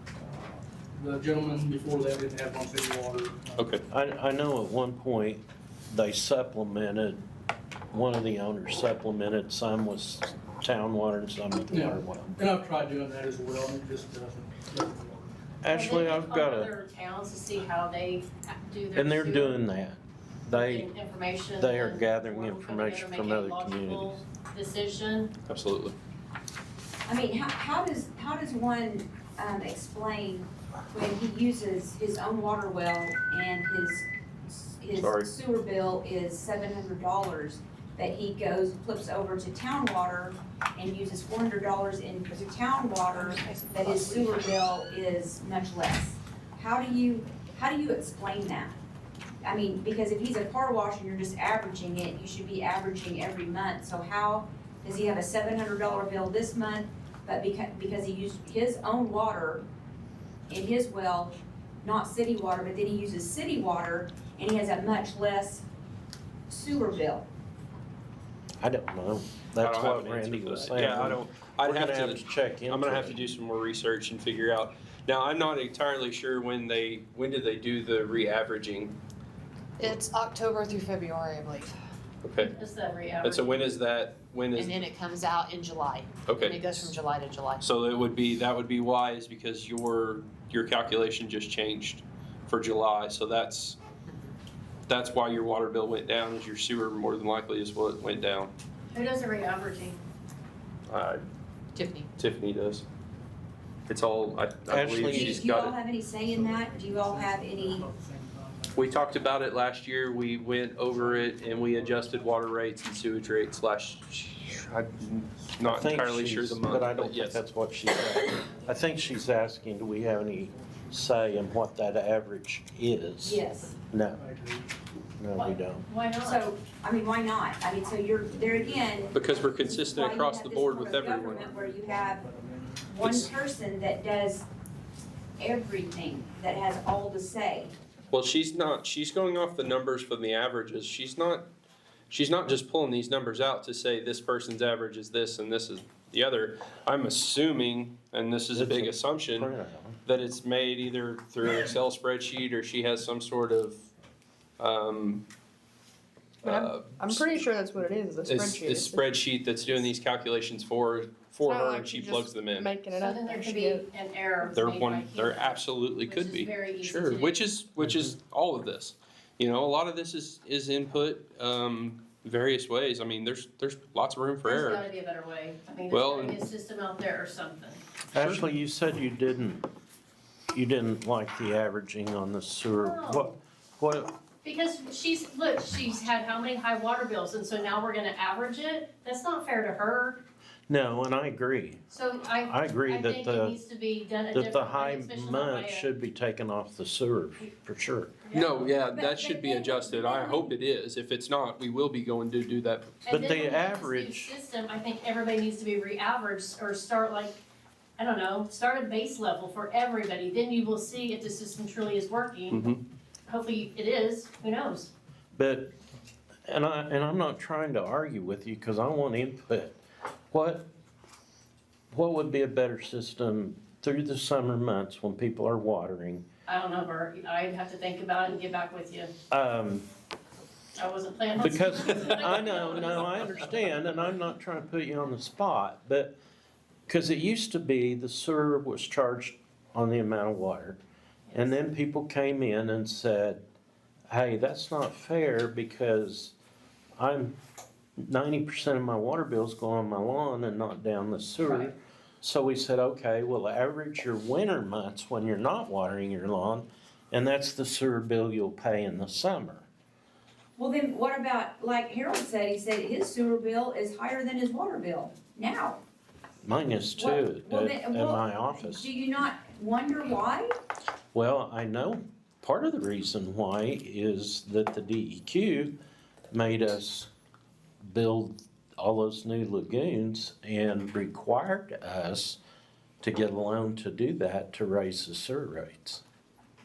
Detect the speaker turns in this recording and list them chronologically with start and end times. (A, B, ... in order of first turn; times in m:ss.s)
0:00.2-0:03.8 A
0:03.6-0:03.8 B
0:03.9-0:07.2 C
0:07.9-0:12.4 C
0:11.7-0:15.4 A
0:15.6-0:16.7 C
0:15.7-0:19.6 D
0:18.9-0:20.9 C
0:20.5-0:25.3 D
0:21.6-0:24.2 C
0:25.5-0:25.9 B
0:27.1-0:48.8 E
0:34.9-0:35.3 B
0:43.1-0:44.6 F
0:49.4-0:59.6 E
1:00.5-1:05.6 E
1:06.5-1:07.3 E
1:08.6-1:13.2 C
1:09.6-1:18.9 B
1:19.8-1:21.7 F
1:22.2-1:22.5 B
1:22.4-1:23.6 D
1:23.2-1:24.8 B
1:24.5-1:27.6 F
1:26.2-1:26.9 B
1:27.6-1:33.8 B
1:34.9-1:38.5 B
1:38.9-1:40.0 D
1:40.9-1:41.2 B
1:41.7-1:42.1 F
1:42.2-1:42.8 B
1:43.9-1:45.8 B
1:44.7-1:45.4 C
1:45.1-1:47.8 E
1:46.2-1:49.3 A
1:48.7-1:57.4 B
1:50.9-1:52.4 A
1:55.6-2:04.2 C
2:00.5-2:01.1 A
2:03.2-2:03.8 E
2:04.1-2:04.8 A
2:05.2-2:05.8 C
2:05.4-2:06.5 D
2:06.2-2:12.2 E
2:08.3-2:09.6 A
2:09.1-2:11.4 B
2:11.2-2:13.0 A
2:12.9-2:14.4 E
2:13.0-2:13.3 B
2:15.4-2:17.7 E
2:18.1-2:21.4 B
2:22.1-2:29.5 B
2:28.5-2:30.0 C
2:30.0-2:33.8 B
2:34.6-2:35.2 B
2:36.4-2:37.4 B
2:36.4-2:39.1 G
2:38.2-2:42.8 B
2:41.4-2:43.8 G
2:42.9-2:47.4 D
2:44.5-2:54.9 B
2:47.8-2:48.2 C
2:54.4-2:57.8 D
2:55.9-2:56.4 B
2:58.1-2:59.6 C
2:58.1-2:58.4 B
3:00.5-3:04.1 C
3:02.8-3:03.4 D
3:04.4-3:10.2 D
3:10.7-3:11.8 C
3:11.9-3:15.9 D
3:12.3-3:13.6 C
3:14.3-3:18.1 C
3:18.3-3:18.6 D
3:18.3-3:23.0 B
3:18.3-3:20.5 E
3:23.0-3:27.4 D
3:23.1-3:24.3 C
3:28.0-3:32.6 D
3:32.5-3:32.8 B
3:33.3-3:34.9 D
3:35.3-3:35.7 C
3:36.5-3:39.8 C
3:40.3-3:40.7 C
3:41.9-3:46.2 C
3:46.5-3:49.1 D
3:49.3-3:49.9 C
3:50.8-3:53.5 D
3:51.4-3:56.1 C
3:56.9-4:00.8 C
4:01.3-4:01.5 D
4:01.3-4:03.4 C
4:04.1-4:06.3 C
4:07.0-4:07.4 C
4:08.0-4:19.7 C
4:11.4-4:11.7 D
4:20.6-4:25.8 E
4:26.4-4:28.9 C
4:27.0-4:30.5 E
4:31.1-4:35.7 C
4:36.3-4:37.1 C
4:37.8-4:42.4 C
4:43.0-4:46.0 C